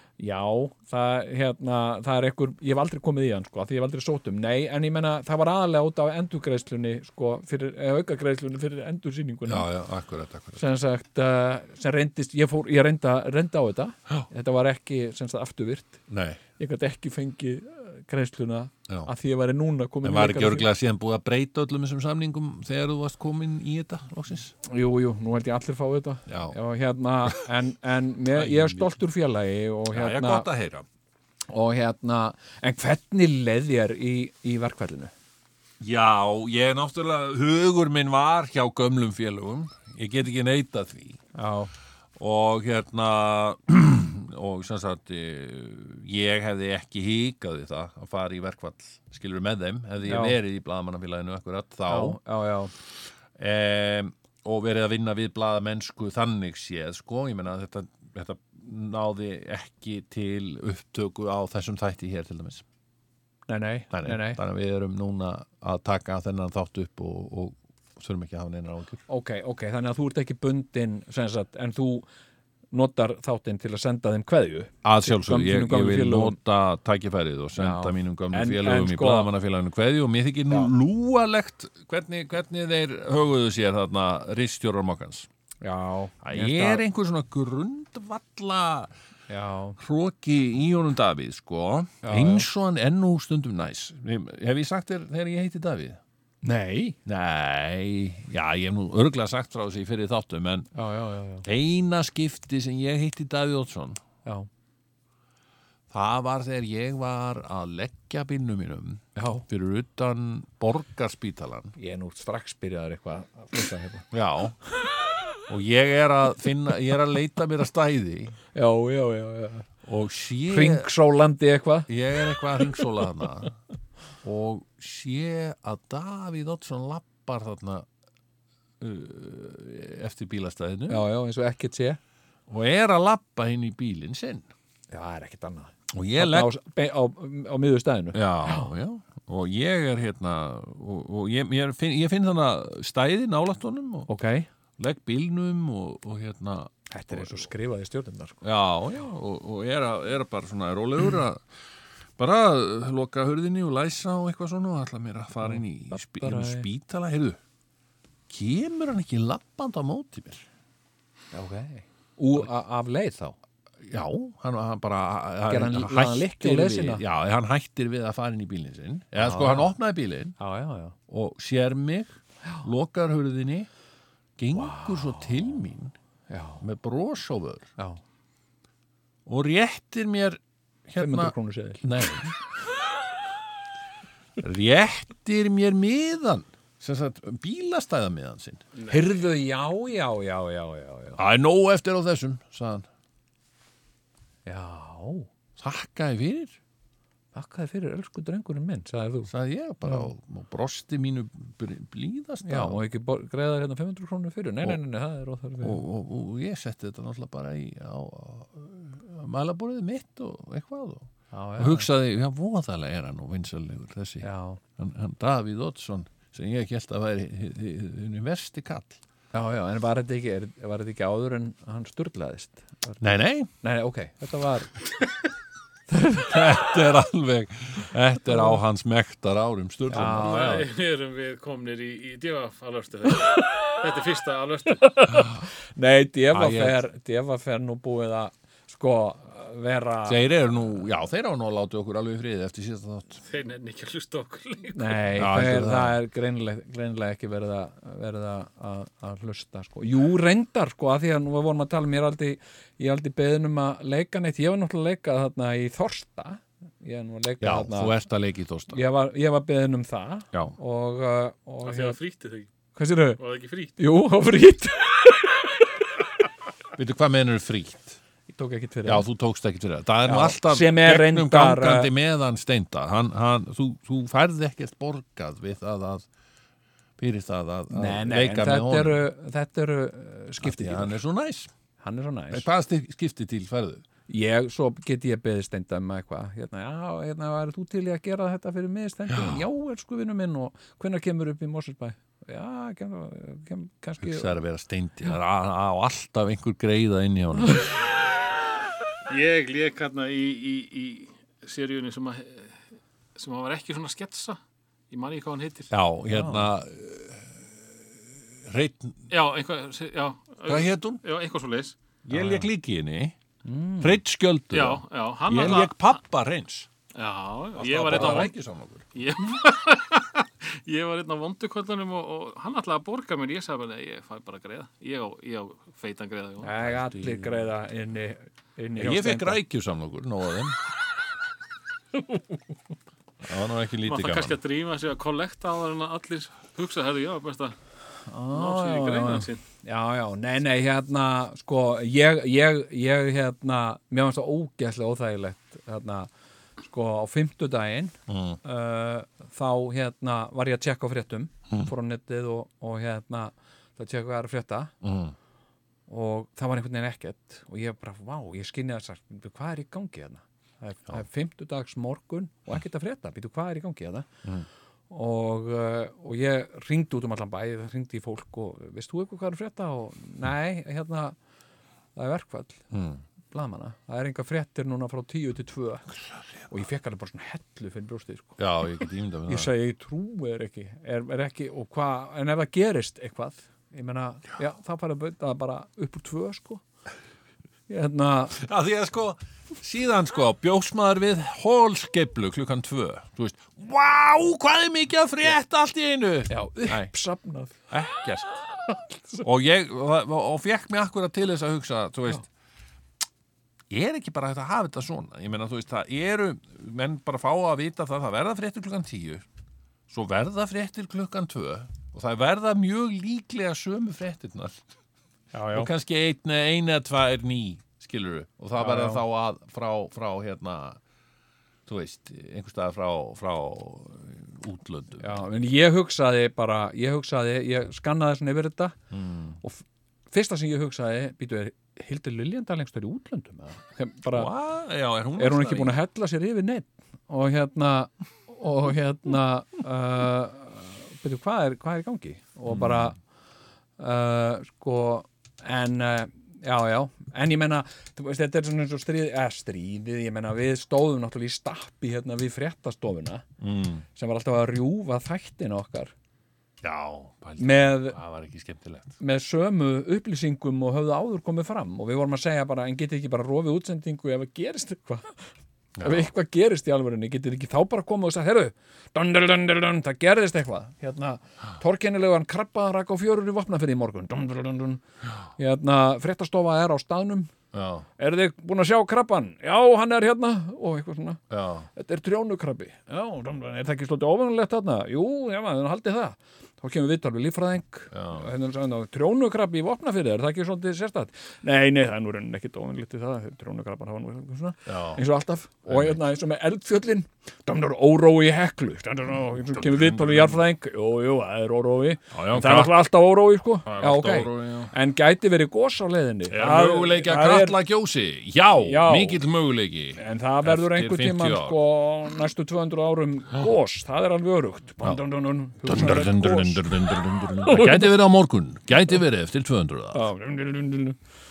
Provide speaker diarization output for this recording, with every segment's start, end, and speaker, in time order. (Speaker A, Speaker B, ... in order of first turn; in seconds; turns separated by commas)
Speaker A: 0.2-9.7, Speaker B: 9.5-10.6, Speaker A: 10.6-16.0, Speaker B: 16.1-16.4, Speaker A: 16.6-20.6, Speaker B: 20.0-24.5, Speaker A: 24.6-30.5, Speaker B: 26.3-26.6, Speaker B: 28.3-29.0, Speaker B: 29.9-30.9, Speaker A: 31.5-35.1, Speaker B: 35.8-41.2, Speaker A: 41.3-41.7, Speaker B: 42.1-52.2, Speaker A: 50.0-50.4, Speaker A: 51.9-52.7, Speaker B: 53.3-62.6, Speaker A: 63.5-64.4, Speaker B: 63.9-69.0, Speaker A: 69.1-72.0, Speaker A: 72.7-76.4, Speaker B: 74.8-85.3, Speaker A: 77.6-79.3, Speaker A: 85.6-86.8, Speaker B: 86.2-88.9, Speaker A: 89.3-89.8, Speaker B: 89.8-96.0, Speaker A: 92.0-92.5, Speaker A: 96.4-97.0, Speaker B: 97.0-100.7, Speaker A: 100.7-101.5, Speaker B: 101.4-104.0, Speaker B: 105.9-111.8, Speaker A: 109.2-109.4, Speaker A: 111.8-114.1, Speaker B: 114.1-114.6, Speaker B: 115.5-118.4, Speaker A: 118.5-119.7, Speaker B: 119.8-120.9, Speaker A: 120.5-121.9, Speaker B: 121.9-123.6, Speaker B: 124.2-127.8, Speaker B: 128.8-131.0, Speaker A: 130.9-132.0, Speaker B: 132.5-134.5, Speaker A: 134.9-138.7, Speaker B: 135.9-136.5, Speaker B: 138.1-144.1, Speaker A: 144.1-144.5, Speaker B: 144.8-147.4, Speaker A: 146.9-148.4, Speaker B: 148.4-151.4, Speaker B: 152.2-157.4, Speaker A: 155.4-156.7, Speaker B: 158.3-160.4, Speaker A: 161.3-163.3, Speaker B: 163.8-170.3, Speaker A: 165.5-167.0, Speaker A: 169.2-169.7, Speaker A: 170.4-170.9, Speaker B: 171.1-173.7, Speaker B: 174.4-175.9, Speaker A: 174.5-175.4, Speaker A: 176.3-176.6, Speaker B: 176.6-177.7, Speaker B: 179.2-182.3, Speaker A: 181.0-181.8, Speaker B: 184.4-188.6, Speaker C: 188.7-189.0, Speaker A: 188.9-191.2, Speaker B: 191.2-192.9, Speaker A: 194.4-195.3, Speaker B: 195.6-196.5, Speaker A: 197.3-199.3, Speaker B: 199.3-202.8, Speaker A: 202.4-205.8, Speaker B: 205.6-219.0, Speaker A: 211.3-211.9, Speaker A: 214.2-214.6, Speaker A: 219.3-223.1, Speaker B: 223.0-223.5, Speaker A: 223.6-224.8, Speaker A: 225.9-226.5, Speaker B: 226.2-230.7, Speaker A: 228.3-228.6, Speaker A: 229.9-230.6, Speaker C: 229.9-234.9, Speaker A: 235.0-240.2, Speaker B: 236.3-236.8, Speaker B: 240.1-243.2, Speaker C: 243.3-245.1, Speaker A: 244.7-258.0, Speaker B: 245.2-246.0, Speaker B: 257.4-258.8, Speaker A: 258.7-262.0, Speaker C: 261.6-262.5, Speaker A: 262.8-263.2, Speaker C: 263.2-263.8, Speaker A: 263.8-265.6, Speaker B: 266.7-268.0, Speaker A: 268.3-269.1, Speaker B: 268.8-276.1, Speaker A: 270.0-271.9, Speaker B: 277.0-279.0, Speaker A: 277.7-281.0, Speaker B: 280.4-281.5, Speaker A: 281.8-282.4, Speaker B: 282.3-283.8, Speaker A: 284.1-294.4, Speaker B: 289.1-289.4, Speaker B: 294.0-297.8, Speaker C: 299.1-302.6, Speaker C: 303.1-305.7, Speaker B: 305.7-307.4, Speaker A: 306.1-306.5, Speaker B: 308.4-309.1, Speaker C: 309.1-311.8, Speaker B: 310.5-311.0, Speaker B: 312.0-313.1, Speaker A: 312.1-312.4, Speaker A: 313.4-314.0, Speaker B: 313.8-316.7, Speaker C: 314.5-315.9, Speaker C: 316.9-318.3, Speaker B: 317.6-318.9, Speaker A: 317.9-318.2, Speaker C: 318.9-326.5, Speaker A: 326.4-329.4, Speaker B: 326.6-327.4, Speaker B: 328.8-330.6, Speaker B: 333.2-334.4, Speaker C: 333.8-337.6, Speaker A: 338.1-346.1, Speaker C: 338.3-339.4, Speaker A: 346.6-354.7, Speaker B: 348.1-348.4, Speaker B: 354.8-355.1, Speaker A: 355.9-364.1, Speaker A: 364.9-371.1, Speaker A: 371.9-372.6, Speaker B: 372.7-373.0, Speaker A: 373.3-378.4, Speaker B: 378.4-379.5, Speaker A: 379.2-386.6, Speaker A: 387.7-388.4, Speaker B: 388.4-396.9, Speaker A: 396.3-397.6, Speaker B: 397.7-398.4, Speaker A: 398.7-399.2, Speaker B: 399.2-402.3, Speaker B: 403.7-409.2, Speaker B: 409.9-414.6, Speaker A: 415.3-415.7, Speaker B: 415.5-420.8, Speaker A: 418.6-419.0, Speaker B: 421.7-425.2, Speaker A: 425.0-428.8, Speaker B: 428.9-429.4, Speaker A: 429.4-434.3, Speaker B: 434.1-435.8, Speaker A: 435.1-443.0, Speaker B: 442.5-442.9, Speaker A: 443.8-453.2, Speaker B: 453.4-453.8, Speaker A: 453.9-455.9, Speaker B: 456.6-458.9, Speaker A: 457.4-458.0, Speaker A: 459.0-465.3, Speaker B: 465.8-466.1, Speaker A: 465.8-474.8, Speaker A: 475.4-477.3, Speaker B: 477.5-477.9, Speaker A: 478.0-481.2, Speaker B: 481.3-481.7, Speaker A: 481.7-507.6, Speaker B: 487.9-488.3, Speaker B: 494.6-495.0, Speaker B: 495.7-496.0, Speaker B: 499.5-500.4, Speaker B: 502.1-502.7, Speaker B: 503.6-504.7, Speaker B: 506.3-511.6, Speaker A: 508.6-509.2, Speaker A: 510.0-518.0, Speaker B: 515.6-520.1, Speaker A: 519.9-521.0